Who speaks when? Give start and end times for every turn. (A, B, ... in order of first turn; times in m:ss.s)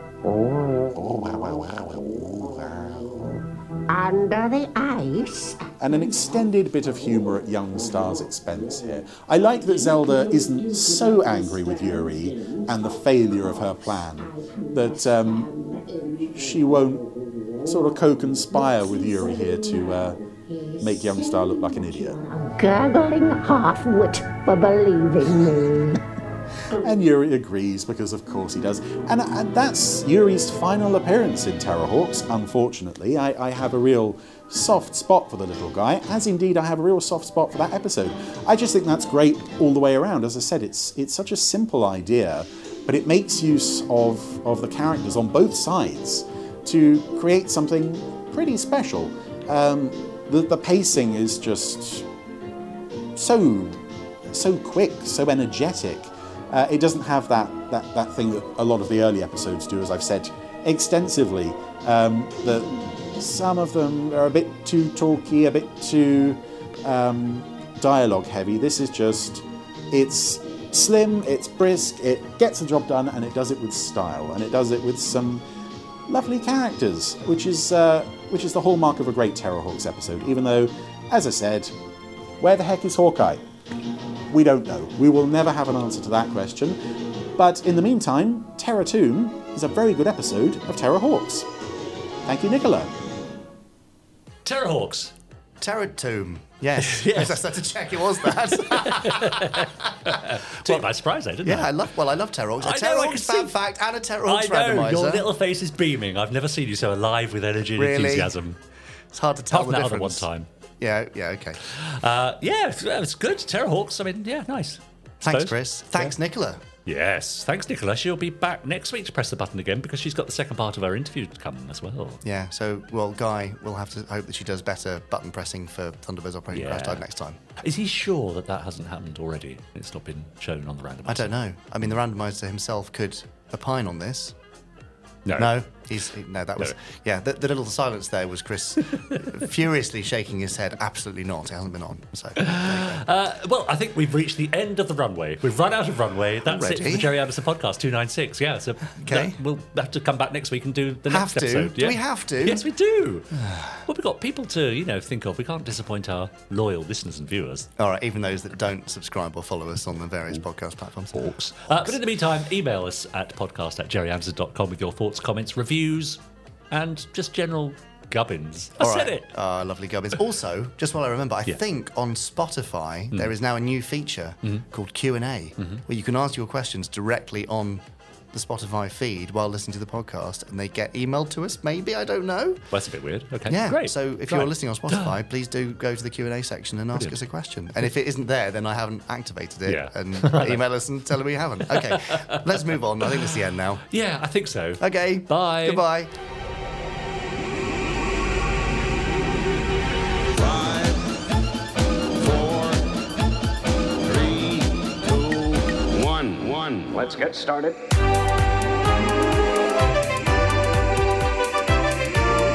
0:00.2-0:00.9 A
0:00.9-0:03.3 B
0:03.9-0:05.7 A
0:05.8-0:15.5 B
0:12.3-0:12.9 A
0:14.2-0:16.3 A
0:16.3-0:17.0 B
0:17.6-0:20.2 B
0:18.9-0:26.0 A
0:20.8-0:22.2 B
0:26.7-0:52.1 B
0:53.1-1:15.4 B
1:16.1-1:21.7 B
1:22.4-1:23.4 B
1:24.3-1:26.8 B
1:27.4-1:31.5 B
1:32.2-1:32.9 B
1:34.4-1:35.1 C
1:35.6-1:40.9 D
1:36.8-1:41.9 C
1:41.4-1:45.2 D
1:42.6-1:43.6 C
1:44.2-1:48.6 C
1:47.8-1:48.3 D
1:49.1-1:50.2 D
1:49.5-1:50.5 C
1:50.8-1:51.6 D
1:51.6-1:56.1 C
1:55.2-1:56.6 D
1:56.8-2:02.2 C
2:02.2-2:07.4 D
2:06.5-2:07.0 C
2:07.6-2:11.3 C
2:11.0-2:14.3 D
2:15.2-2:16.0 C
2:15.4-2:23.0 D
2:22.4-2:33.3 C
2:26.4-2:27.1 D
2:29.0-2:29.4 D
2:31.1-2:32.6 D
2:33.8-2:37.7 C
2:37.8-2:42.0 D
2:41.1-2:49.3 C
2:48.8-2:57.8 D
2:58.3-3:02.6 D
3:02.7-3:05.2 C
3:03.5-3:13.8 D
3:09.6-3:10.6 C
3:11.7-3:15.8 C
3:14.8-3:16.1 D
3:20.3-3:21.0 E
3:22.2-3:22.8 E
3:24.0-3:27.7 E